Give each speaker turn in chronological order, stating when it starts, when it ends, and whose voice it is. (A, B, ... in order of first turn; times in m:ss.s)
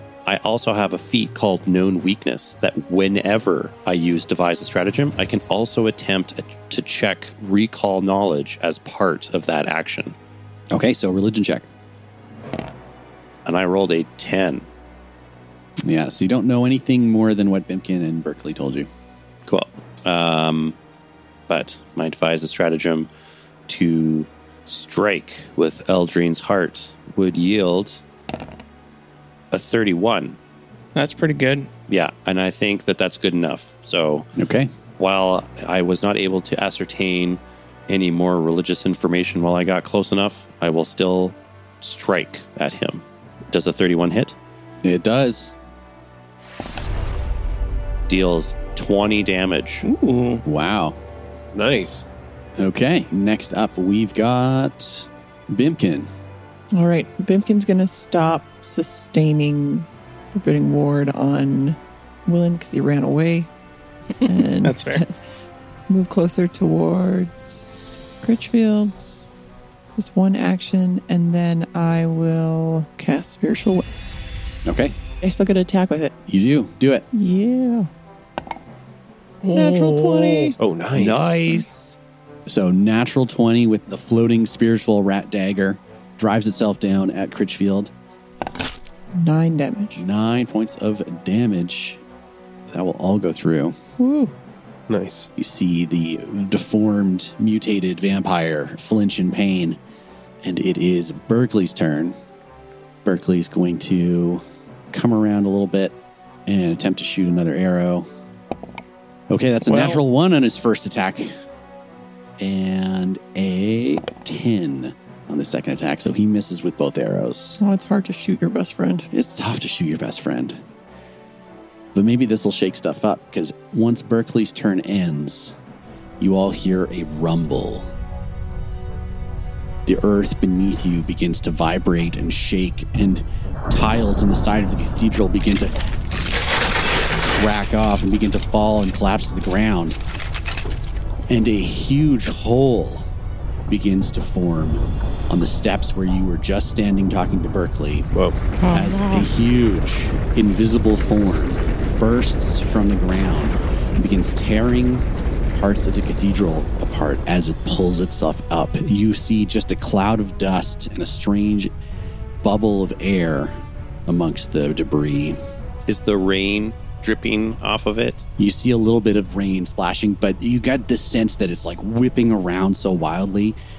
0:00.3-0:10.2 A
0:10.7-0:11.7 B
0:13.4-0:14.7 A
0:15.8-0:18.9 B
0:19.5-0:20.8 A
0:21.5-0:23.1 A
0:23.7-0:28.0 A
0:29.5-0:30.4 A
0:31.0-0:31.7 C
0:31.9-0:34.3 A
0:34.4-0:34.7 B
0:35.0-0:44.4 A
0:44.8-0:45.5 B
0:48.1-0:49.8 A
0:49.8-0:50.4 C
0:50.4-0:51.0 B
0:51.5-0:52.1 D
0:52.6-0:56.1 B
0:56.7-1:03.5 E
1:04.2-1:05.2 E
1:04.6-1:05.0 C
1:05.9-1:09.2 E
1:10.0-1:13.9 E
1:14.6-1:15.0 B
1:15.2-1:16.1 E
1:16.3-1:17.0 B
1:17.1-1:17.9 E
1:19.4-1:20.6 E
1:19.5-1:20.5 C
1:20.6-1:21.7 D
1:20.9-1:21.9 A
1:22.5-1:27.9 B
1:29.2-1:30.0 E
1:30.0-1:32.0 B
1:32.7-1:33.8 B
1:34.0-1:34.3 E
1:34.9-1:35.3 D
1:35.4-1:39.8 B
1:40.4-1:42.2 B
1:43.0-1:48.1 B
1:49.3-1:51.3 B
1:49.7-1:50.0 C
1:52.4-1:57.6 B
1:57.6-1:59.1 E
1:59.1-2:00.6 B
2:01.9-2:05.6 B
2:06.2-2:07.9 B
2:09.9-2:15.8 B
2:17.3-2:20.0 B
2:21.3-2:23.1 B
2:23.7-2:28.1 B
2:28.1-2:28.4 D
2:28.6-2:29.3 C
2:28.7-2:41.7 B
2:42.4-2:43.6 B
2:44.1-2:45.4 B
2:45.9-2:48.2 A
2:48.4-2:53.6 B